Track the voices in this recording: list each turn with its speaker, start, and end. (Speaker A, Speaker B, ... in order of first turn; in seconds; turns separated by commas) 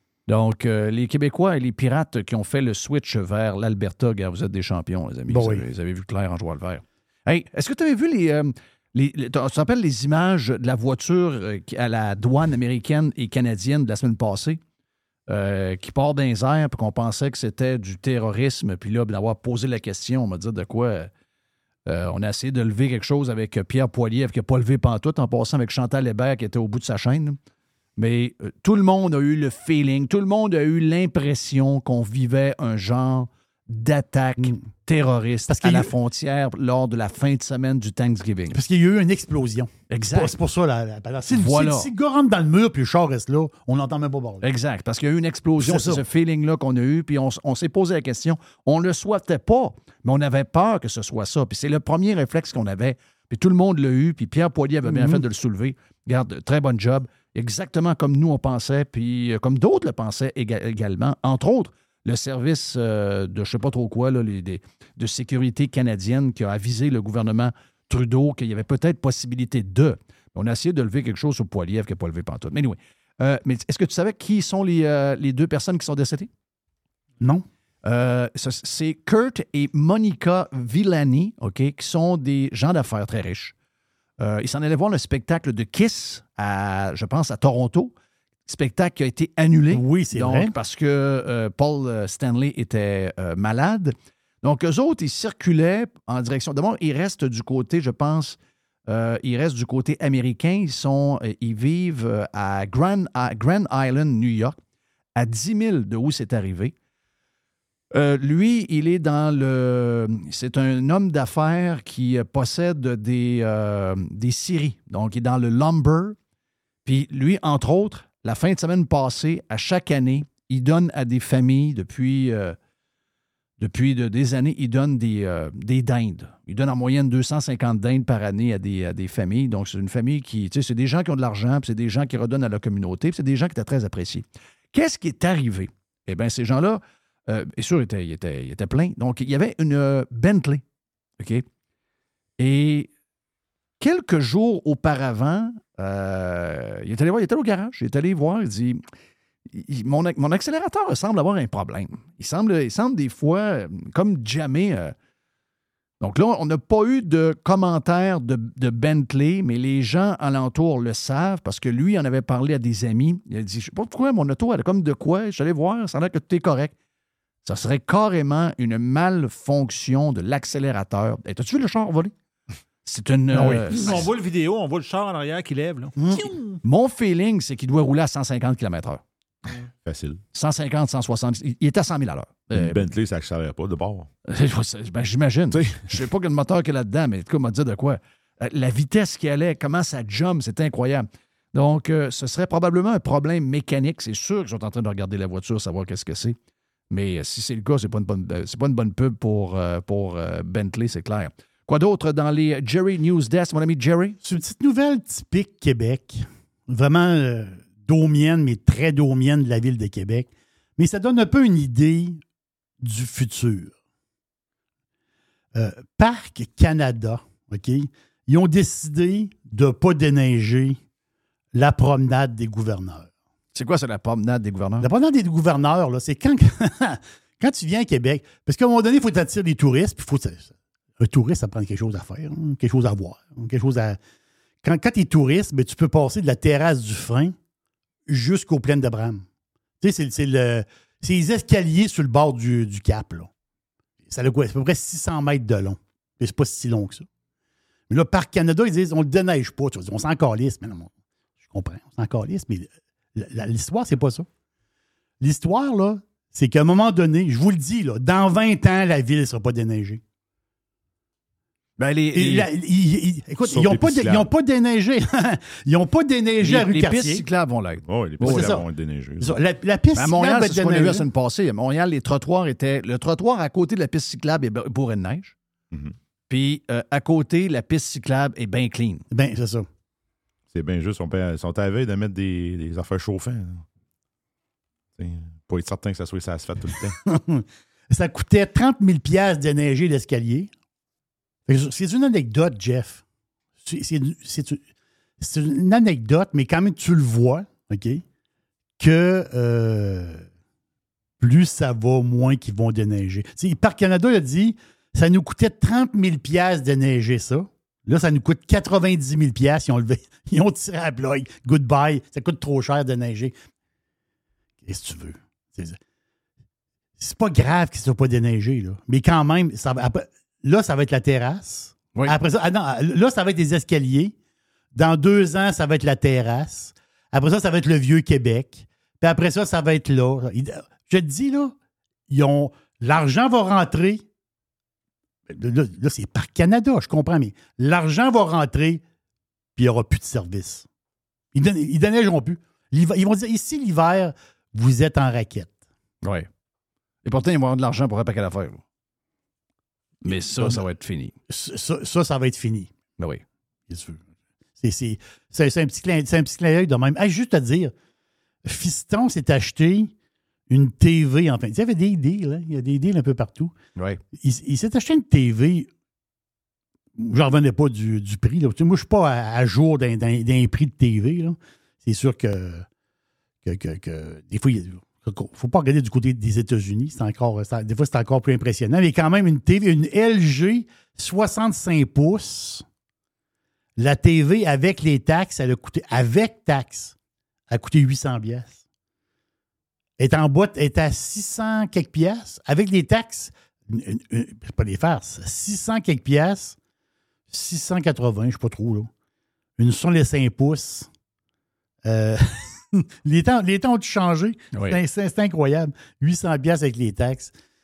Speaker A: 0.3-14.6, Speaker B: 5.3-5.6, Speaker A: 15.3-21.1, Speaker A: 21.9-27.4, Speaker A: 28.0-38.6, Speaker B: 35.5-35.9, Speaker B: 38.5-44.4, Speaker A: 39.9-40.3, Speaker A: 41.3-41.9, Speaker A: 44.4-76.3, Speaker B: 45.6-46.0, Speaker B: 54.8-55.2, Speaker B: 77.2-77.5, Speaker A: 77.8-83.5, Speaker A: 84.2-87.9, Speaker A: 88.5-104.6, Speaker B: 89.7-90.5, Speaker A: 105.1-106.7, Speaker A: 107.9-116.2, Speaker A: 116.8-122.5, Speaker A: 123.6-140.6, Speaker A: 141.2-141.4, Speaker A: 142.4-142.9, Speaker A: 143.8-148.8, Speaker A: 149.5-154.9, Speaker A: 156.0-166.7, Speaker A: 167.4-172.1, Speaker A: 172.8-174.1, Speaker C: 173.4-176.4, Speaker B: 176.0-176.2, Speaker A: 176.6-179.0, Speaker D: 179.8-180.2, Speaker A: 180.3-182.9, Speaker D: 182.5-184.1, Speaker A: 184.2-196.3, Speaker D: 185.5-185.8, Speaker A: 196.9-204.2, Speaker B: 204.2-212.2, Speaker B: 212.8-213.7, Speaker B: 215.5-220.8, Speaker B: 221.5-223.1, Speaker A: 223.5-224.9, Speaker B: 224.8-234.0, Speaker B: 234.6-237.3, Speaker B: 238.1-239.2, Speaker B: 239.8-243.3, Speaker B: 244.1-247.0, Speaker B: 247.9-250.9, Speaker B: 251.5-254.3, Speaker B: 255.2-260.0, Speaker A: 261.8-262.5, Speaker B: 262.1-267.2, Speaker D: 263.4-264.3, Speaker A: 266.4-268.6, Speaker D: 267.8-269.4, Speaker B: 268.2-268.6, Speaker B: 269.2-271.1, Speaker A: 269.9-275.3, Speaker A: 276.3-279.0, Speaker B: 279.1-279.6, Speaker D: 280.5-283.6, Speaker D: 285.0-287.0, Speaker B: 287.1-290.5, Speaker B: 291.5-293.0, Speaker B: 293.6-294.6, Speaker B: 295.2-298.0, Speaker B: 298.8-300.2, Speaker B: 301.2-313.3, Speaker B: 314.6-315.8, Speaker B: 317.0-324.1, Speaker B: 324.7-331.5, Speaker B: 332.1-334.0, Speaker B: 335.3-338.8, Speaker B: 339.6-340.6, Speaker B: 341.3-345.5, Speaker A: 347.0-348.6, Speaker A: 350.0-351.2, Speaker B: 350.1-350.6, Speaker B: 351.3-352.7, Speaker B: 353.7-354.0, Speaker B: 354.6-357.7, Speaker B: 358.4-359.9, Speaker B: 360.5-363.5, Speaker B: 364.2-365.7, Speaker B: 367.0-372.6, Speaker B: 373.4-382.6, Speaker B: 383.8-386.9, Speaker B: 387.5-388.6, Speaker B: 390.0-396.6, Speaker B: 397.3-398.9, Speaker B: 399.6-400.9, Speaker B: 401.8-407.3, Speaker A: 404.5-404.8